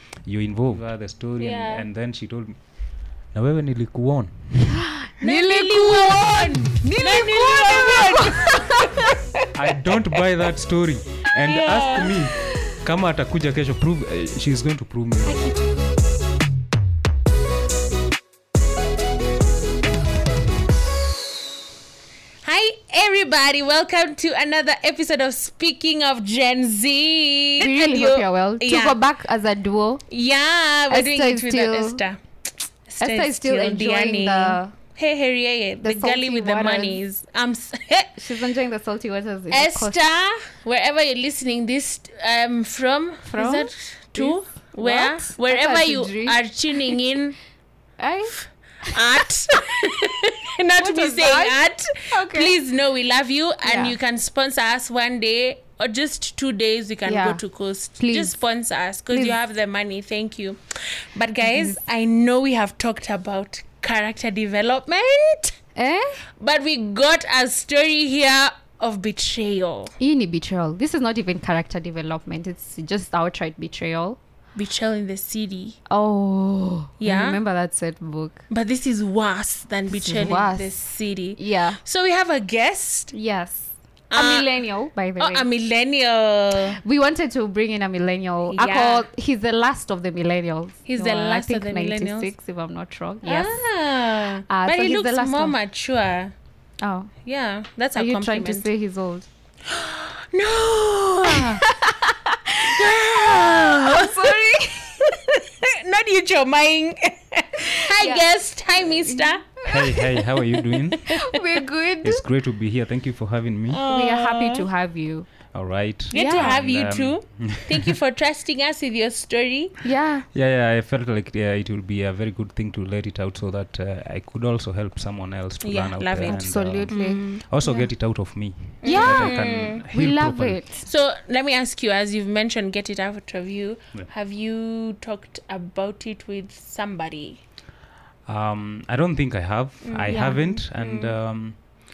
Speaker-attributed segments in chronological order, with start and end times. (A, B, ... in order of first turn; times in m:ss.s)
0:00.2-0:02.6 A
0:01.4-0:01.8 B
0:03.3-0:04.9 A
0:04.7-0:09.1 C
0:05.2-0:09.0 B
0:09.5-0:15.5 A
0:11.5-0:12.2 B
0:15.3-0:15.6 B
0:22.4-0:29.0 B
0:27.6-0:30.0 C
0:30.1-0:32.2 B
0:30.9-0:32.0 C
0:32.9-0:38.2 B
0:33.0-0:34.7 C
0:35.8-0:37.0 C
0:38.2-0:40.0 C
0:39.5-0:47.4 B
0:43.2-0:47.0 C
0:48.0-0:49.0 C
0:48.8-1:05.5 B
0:50.8-0:52.6 C
0:53.6-0:54.0 C
0:57.0-0:57.4 C
0:58.0-0:58.4 C
0:59.1-0:59.4 C
1:01.4-1:01.8 C
1:05.7-1:06.2 C
1:06.4-1:09.9 B
1:10.0-1:14.2 C
1:14.6-1:15.8 B
1:15.9-1:18.4 C
1:17.0-1:17.4 B
1:18.5-1:23.1 B
1:19.9-1:21.8 C
1:23.1-1:25.4 C
1:24.1-1:24.6 B
1:25.2-1:26.8 B
1:26.7-1:35.6 C
1:28.5-1:29.0 B
1:30.9-1:32.3 B
1:33.2-1:36.3 B
1:36.8-1:37.1 C
1:37.2-1:38.7 B
1:37.9-1:39.3 C
1:39.7-1:41.7 B
1:41.3-1:45.2 C
1:42.7-1:44.4 B
1:45.0-1:49.7 B
1:47.7-1:50.0 C
1:49.6-1:51.3 A
1:51.1-1:52.2 C
1:52.0-1:53.8 A
1:53.7-1:54.6 B
1:53.9-1:55.3 C
1:55.5-1:58.0 A
1:56.1-1:59.8 B
1:56.1-1:56.5 C
1:59.8-2:00.3 C
2:00.3-2:10.6 A
2:05.6-2:07.4 B
2:06.2-2:07.9 C
2:08.8-2:09.8 B
2:08.8-2:10.9 C
2:10.8-2:17.4 B
2:18.2-2:21.6 A
2:19.8-2:21.1 B
2:20.1-2:20.6 C